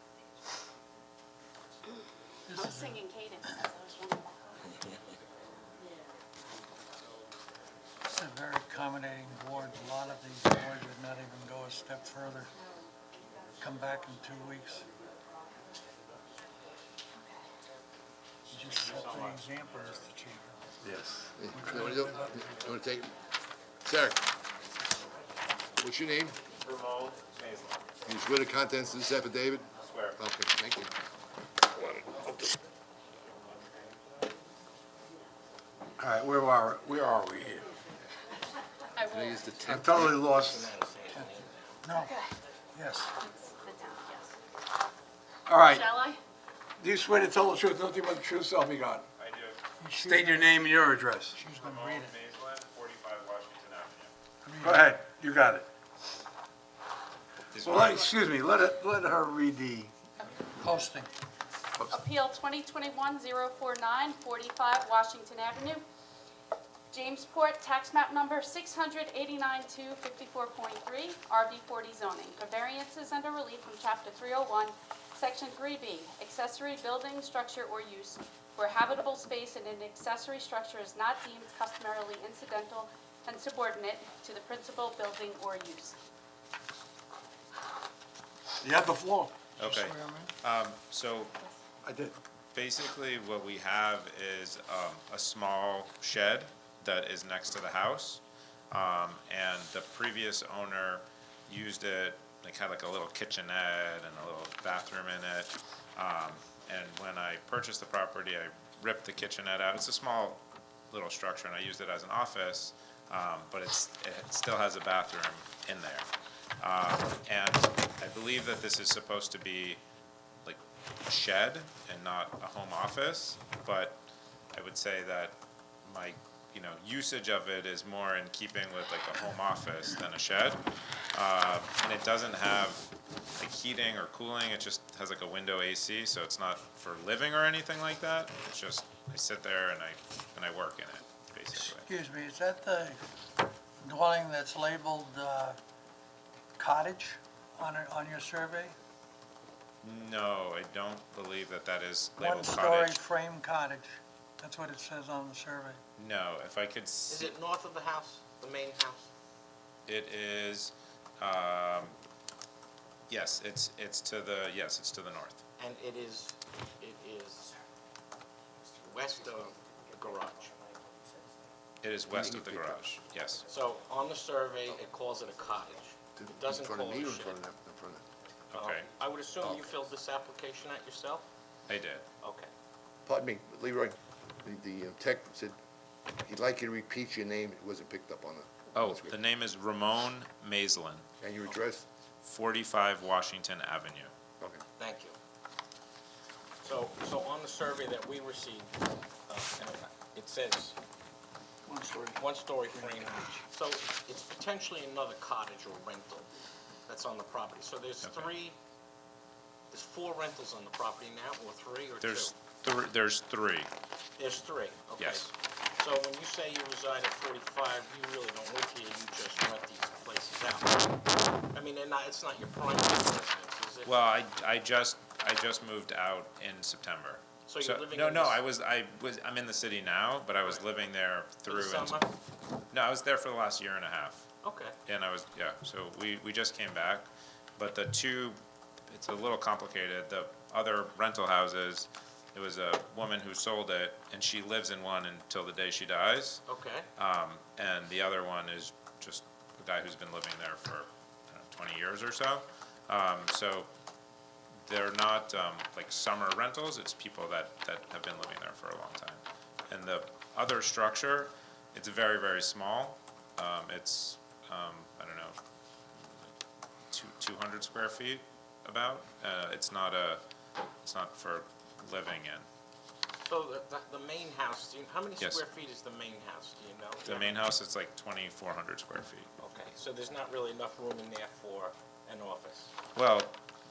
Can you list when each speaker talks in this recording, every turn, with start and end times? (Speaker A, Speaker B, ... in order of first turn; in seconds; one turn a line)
Speaker A: 2.5-3.0
Speaker B: 2.5-4.7
Speaker A: 8.1-12.5
Speaker A: 13.6-14.8
Speaker A: 18.5-20.5
Speaker C: 20.9-21.3
Speaker D: 21.4-23.1
Speaker A: 21.5-22.4
Speaker D: 23.9-24.2
Speaker D: 25.8-26.4
Speaker E: 26.6-27.9
Speaker D: 28.1-30.9
Speaker E: 29.8-30.2
Speaker D: 31.8-32.6
Speaker C: 36.0-37.7
Speaker B: 39.0-39.8
Speaker D: 39.1-40.2
Speaker C: 39.6-40.7
Speaker F: 40.0-41.8
Speaker A: 41.8-42.2
Speaker B: 41.9-42.3
Speaker A: 42.8-43.1
Speaker B: 43.2-44.3
Speaker C: 45.5-45.9
Speaker B: 45.6-46.2
Speaker C: 46.8-49.0
Speaker E: 49.2-49.6
Speaker A: 49.8-52.1
Speaker C: 50.0-51.4
Speaker E: 51.5-54.1
Speaker A: 54.4-55.0
Speaker C: 54.6-55.6
Speaker E: 57.5-58.1
Speaker C: 57.6-59.9
Speaker A: 60.6-61.1
Speaker B: 61.9-65.8
Speaker B: 66.9-86.0
Speaker C: 88.6-89.3
Speaker E: 89.6-91.3
Speaker A: 89.7-90.3
Speaker C: 91.9-92.1
Speaker E: 92.5-119.8
Speaker E: 120.5-124.0
Speaker E: 124.5-130.6
Speaker E: 131.1-141.9
Speaker A: 141.5-143.0
Speaker A: 143.8-145.6
Speaker A: 146.6-148.8
Speaker E: 149.8-153.0
Speaker A: 152.2-155.8
Speaker E: 156.0-157.3
Speaker F: 157.1-159.1
Speaker E: 159.8-162.0
Speaker E: 163.1-165.4
Speaker F: 165.6-167.5
Speaker F: 168.8-170.6
Speaker E: 171.8-173.5
Speaker D: 172.1-172.8
Speaker F: 173.5-177.4
Speaker D: 176.2-178.0
Speaker E: 178.5-178.9
Speaker F: 178.5-181.2
Speaker D: 179.4-179.7
Speaker E: 181.7-182.0
Speaker F: 182.2-182.5
Speaker D: 183.1-185.5
Speaker D: 186.2-189.2
Speaker E: 188.7-191.0
Speaker D: 191.2-191.8
Speaker E: 192.2-194.1
Speaker F: 194.8-195.2
Speaker F: 196.6-198.7
Speaker F: 199.3-200.8
Speaker A: 201.7-203.4
Speaker F: 202.2-206.3
Speaker F: 206.9-208.6
Speaker E: 208.0-208.3
Speaker F: 209.7-212.3
Speaker E: 212.0-213.7
Speaker F: 214.2-224.0
Speaker E: 215.0-215.3
Speaker E: 223.8-232.0
Speaker F: 227.5-228.4
Speaker F: 231.5-232.1
Speaker E: 232.7-234.2
Speaker F: 234.4-234.8
Speaker E: 234.8-238.4
Speaker E: 238.9-246.4
Speaker F: 246.5-246.9
Speaker E: 247.0-253.7
Speaker E: 254.7-265.4
Speaker E: 266.0-266.3
Speaker E: 266.9-270.2
Speaker E: 270.8-272.5
Speaker F: 273.2-277.3
Speaker E: 277.0-279.3
Speaker F: 279.4-282.7
Speaker E: 282.9-283.3